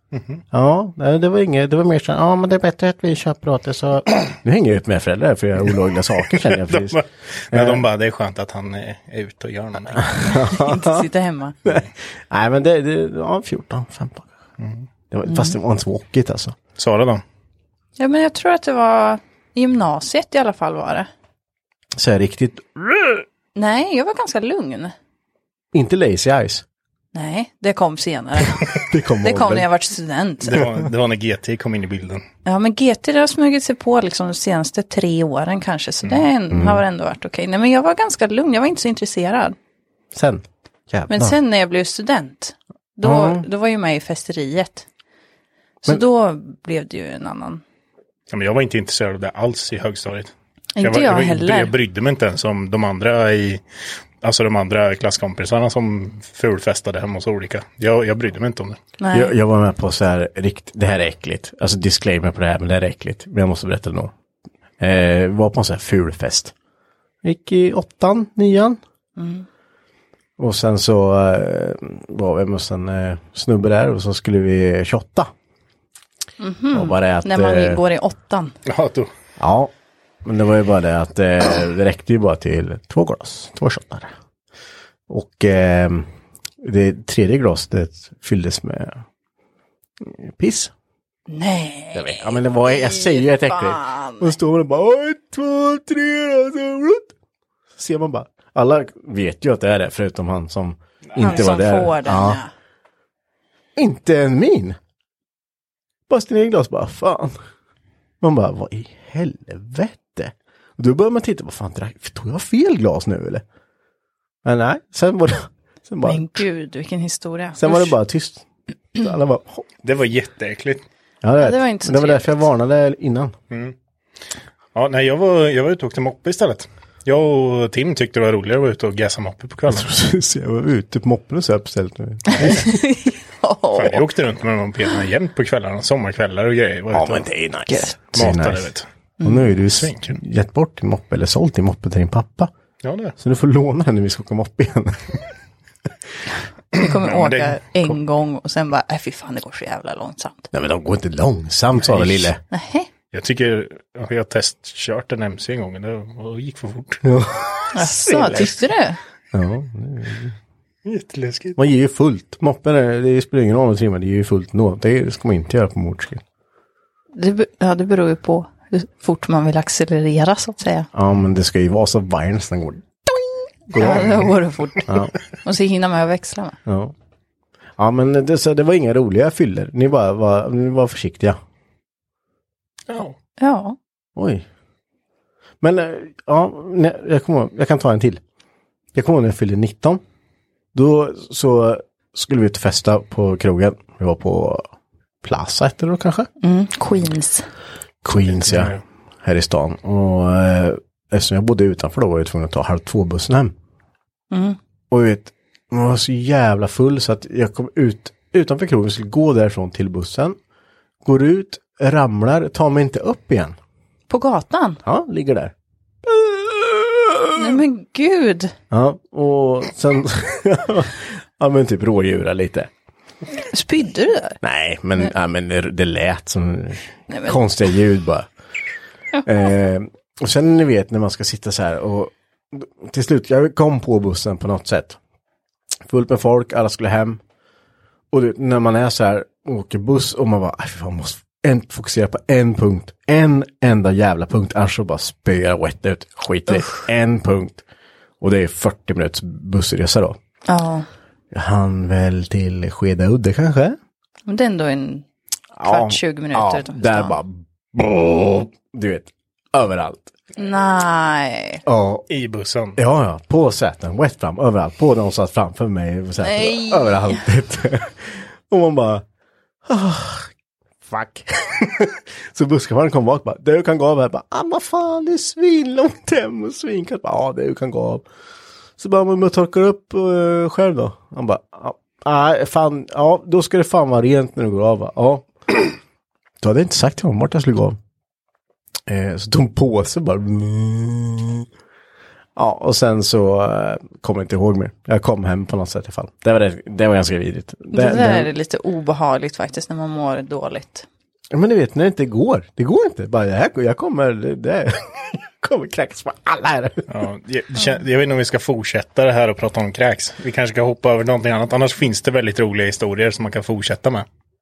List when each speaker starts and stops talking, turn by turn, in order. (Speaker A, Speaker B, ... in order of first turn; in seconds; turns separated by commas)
Speaker A: 0.1-0.4, Speaker B: 0.5-7.8, Speaker A: 6.3-10.4, Speaker B: 9.9-11.1, Speaker C: 10.3-11.6, Speaker B: 11.7-14.3, Speaker A: 14.6-14.8, Speaker B: 15.1-16.6, Speaker C: 15.3-15.6, Speaker A: 16.8-17.2, Speaker C: 18.0-21.1, Speaker B: 22.0-23.2, Speaker C: 23.6-24.9, Speaker B: 25.7-26.6, Speaker C: 27.1-30.6, Speaker B: 28.4-29.7, Speaker A: 30.4-32.2, Speaker C: 32.5-39.6, Speaker B: 36.5-36.8, Speaker B: 40.1-41.4, Speaker C: 41.1-44.9, Speaker B: 43.0-43.5, Speaker C: 45.8-47.6, Speaker A: 48.3-53.6, Speaker C: 50.8-51.7, Speaker A: 54.2-58.8, Speaker C: 59.0-59.4, Speaker B: 59.1-64.1, Speaker B: 64.8-66.5, Speaker B: 67.2-68.8, Speaker C: 69.2-69.5, Speaker B: 70.4-75.3, Speaker C: 76.4-78.6, Speaker B: 76.7-77.8, Speaker A: 78.7-79.1, Speaker B: 79.4-79.7, Speaker B: 80.2-84.1, Speaker B: 85.1-86.1, Speaker B: 86.6-89.0, Speaker B: 90.0-90.7, Speaker C: 91.3-94.4, Speaker B: 91.9-97.1, Speaker B: 97.8-102.4, Speaker C: 101.2-102.5, Speaker B: 103.8-104.8, Speaker B: 106.1-107.4, Speaker B: 108.2-113.4, Speaker B: 114.4-116.5, Speaker C: 116.0-117.9, Speaker B: 117.6-119.7, Speaker A: 119.8-120.8, Speaker B: 121.2-123.3, Speaker C: 121.4-122.3, Speaker A: 123.5-123.8, Speaker A: 124.7-129.9, Speaker B: 129.7-132.8, Speaker C: 132.3-134.1, Speaker A: 133.8-137.3, Speaker B: 136.9-142.5, Speaker C: 137.7-138.0, Speaker A: 138.2-138.9, Speaker C: 139.2-139.5, Speaker A: 139.7-140.2, Speaker A: 142.8-143.2, Speaker B: 143.2-145.2, Speaker C: 146.7-150.5, Speaker A: 146.8-148.0, Speaker B: 150.5-152.4, Speaker A: 151.8-152.3, Speaker C: 152.5-152.9, Speaker A: 153.1-157.1, Speaker B: 157.0-158.6, Speaker C: 157.7-159.0, Speaker B: 159.3-160.3, Speaker A: 160.8-161.6, Speaker B: 161.6-166.2, Speaker C: 167.2-170.9, Speaker B: 170.9-174.3, Speaker C: 173.8-176.6, Speaker A: 173.8-174.2, Speaker B: 174.9-175.1, Speaker B: 176.7-176.9, Speaker B: 177.8-181.4, Speaker A: 182.9-183.2, Speaker C: 183.4-183.8, Speaker B: 184.2-184.5, Speaker B: 185.6-188.2, Speaker B: 188.9-190.0, Speaker B: 190.7-194.7, Speaker B: 195.2-196.3, Speaker C: 196.4-197.5, Speaker B: 198.0-203.6, Speaker A: 198.2-198.8, Speaker C: 204.3-204.6, Speaker B: 204.9-210.4, Speaker B: 211.0-213.6, Speaker C: 214.1-214.8, Speaker B: 214.8-215.5, Speaker B: 216.1-217.6, Speaker C: 217.3-218.5, Speaker B: 218.7-222.7, Speaker C: 223.3-224.4, Speaker B: 224.4-228.3, Speaker C: 227.1-227.4, Speaker B: 229.2-235.0, Speaker B: 235.9-237.2, Speaker B: 238.1-247.6, Speaker B: 248.2-250.2, Speaker C: 250.5-250.9, Speaker B: 251.3-253.8, Speaker C: 254.3-255.1, Speaker B: 255.6-260.1, Speaker C: 255.7-257.2, Speaker C: 260.4-261.6, Speaker B: 261.6-262.1, Speaker A: 262.1-262.8, Speaker B: 262.8-269.1, Speaker C: 266.2-267.2, Speaker B: 269.7-270.3, Speaker B: 270.8-278.1, Speaker B: 278.8-285.7, Speaker B: 286.4-287.8, Speaker B: 288.9-291.5, Speaker B: 292.4-298.3, Speaker C: 297.7-300.9, Speaker B: 301.3-306.9, Speaker A: 306.9-314.1